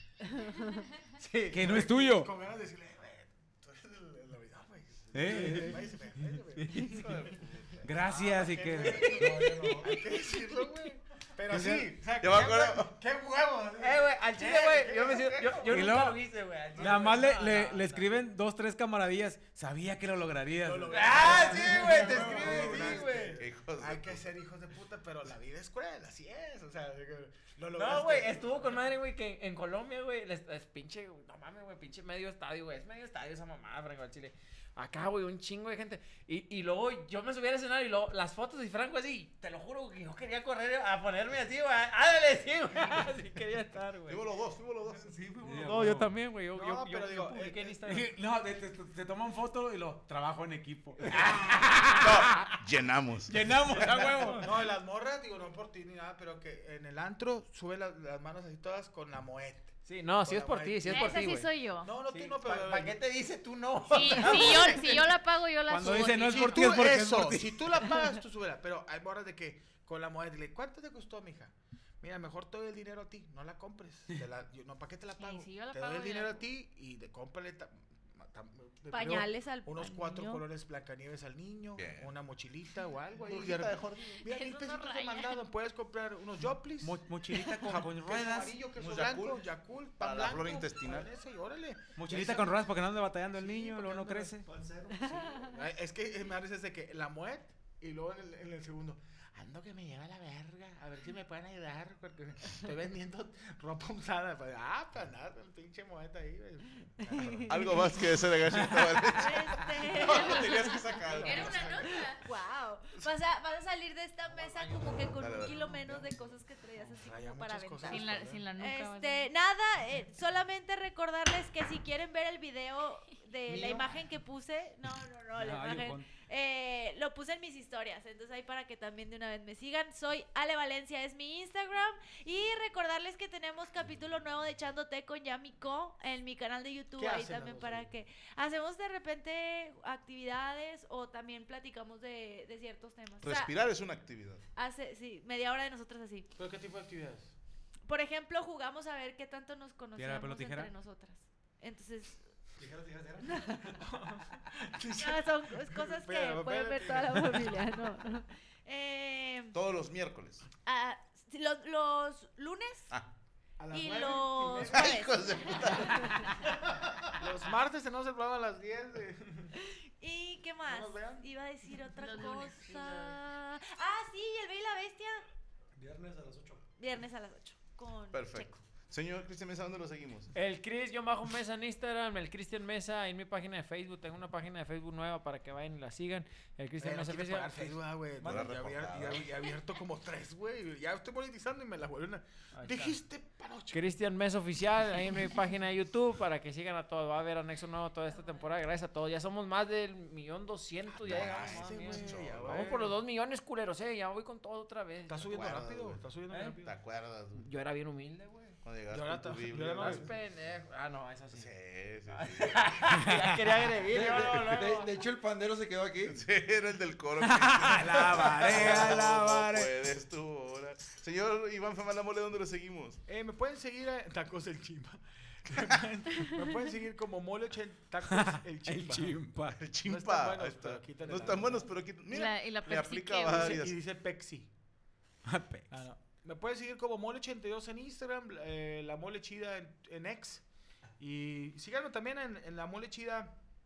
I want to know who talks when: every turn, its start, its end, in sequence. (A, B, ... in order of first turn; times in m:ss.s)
0:01.2-0:01.6 A
0:01.2-0:16.1 B
0:01.5-0:02.3 C
0:05.1-0:05.8 C
0:05.3-0:05.7 A
0:06.6-0:07.2 A
0:06.9-0:07.8 D
0:07.8-0:09.7 C
0:08.8-0:10.0 A
0:11.5-0:12.9 D
0:13.8-0:18.1 A
0:15.7-0:16.2 C
0:16.8-0:17.2 D
0:16.8-0:23.1 C
0:20.6-0:28.6 B
0:20.9-0:23.4 A
0:23.4-0:24.2 D
0:27.8-0:44.2 A
0:44.1-0:45.7 D
0:45.4-0:46.1 C
0:45.6-0:48.1 A
0:46.5-0:47.8 B
0:47.8-0:52.0 C
0:51.1-0:52.5 A
0:52.0-0:54.3 D
0:53.3-0:54.5 C
0:54.4-1:03.0 B
0:59.8-1:01.5 A
1:00.8-1:01.9 E
1:02.1-1:05.0 A
1:03.9-1:06.7 E
1:04.2-1:05.1 B
1:05.7-1:07.8 C
1:05.8-1:32.8 B
1:15.1-1:16.4 E
1:18.9-1:20.4 F
1:21.7-1:22.1 D
1:23.3-1:24.2 D
1:24.2-1:25.4 E
1:26.8-1:28.6 C
1:28.7-1:29.4 D
1:30.0-1:31.1 D
1:32.0-1:34.5 C
1:33.4-1:34.1 B
1:33.5-1:35.6 G
1:35.5-1:47.8 B
1:47.2-1:51.9 D
1:49.1-2:23.5 F
1:50.1-1:50.5 E
1:51.1-1:52.2 E
1:51.2-1:51.9 B
1:54.3-1:55.0 A
1:55.1-1:55.6 D
1:55.5-1:56.2 B
1:56.8-1:58.4 B
1:57.8-1:59.3 E
2:03.5-2:03.9 G
2:05.4-2:06.1 C
2:17.0-2:17.9 B
2:23.2-2:24.4 D
2:24.6-2:26.3 F
2:26.4-2:27.3 B
2:27.9-2:32.2 F
2:30.0-2:30.7 C
2:32.6-2:33.8 G
2:33.2-2:33.8 F
2:33.8-2:37.9 B
2:35.0-2:39.6 F
2:39.5-2:40.4 D
2:40.6-2:42.9 F
2:43.6-2:46.5 B
2:43.7-2:46.3 F
2:44.7-2:46.3 D
2:47.2-2:49.5 B
2:49.6-2:55.2 F
2:50.6-2:51.3 B
2:52.0-2:53.1 E
2:55.8-2:56.6 G
2:56.8-2:58.6 F
2:58.1-3:00.3 D
3:00.3-3:07.8 A
3:06.8-3:13.8 B
3:08.2-3:09.3 D
3:12.5-3:13.0 A
3:13.7-3:25.2 A
3:21.0-3:22.7 D
3:21.0-3:22.9 B
3:25.1-3:26.7 B
3:25.1-3:26.0 D
3:26.3-3:26.5 A
3:26.6-3:27.5 D
3:27.4-3:28.6 A
3:28.6-3:30.1 D
3:28.9-3:30.1 B
3:29.8-3:31.5 A
3:31.3-3:32.7 D
3:32.1-3:34.9 A
3:33.0-3:33.3 C
3:33.9-3:36.2 H
3:34.3-3:34.6 D
3:36.0-3:43.0 D
3:37.2-3:39.7 C
3:43.1-3:49.2 B
3:48.1-3:49.6 C
3:49.6-3:53.7 D
3:49.8-3:51.7 B
3:52.1-3:53.6 E
3:53.2-3:54.5 B
3:55.2-3:55.8 C
3:55.7-4:00.4 B
4:01.0-4:03.4 B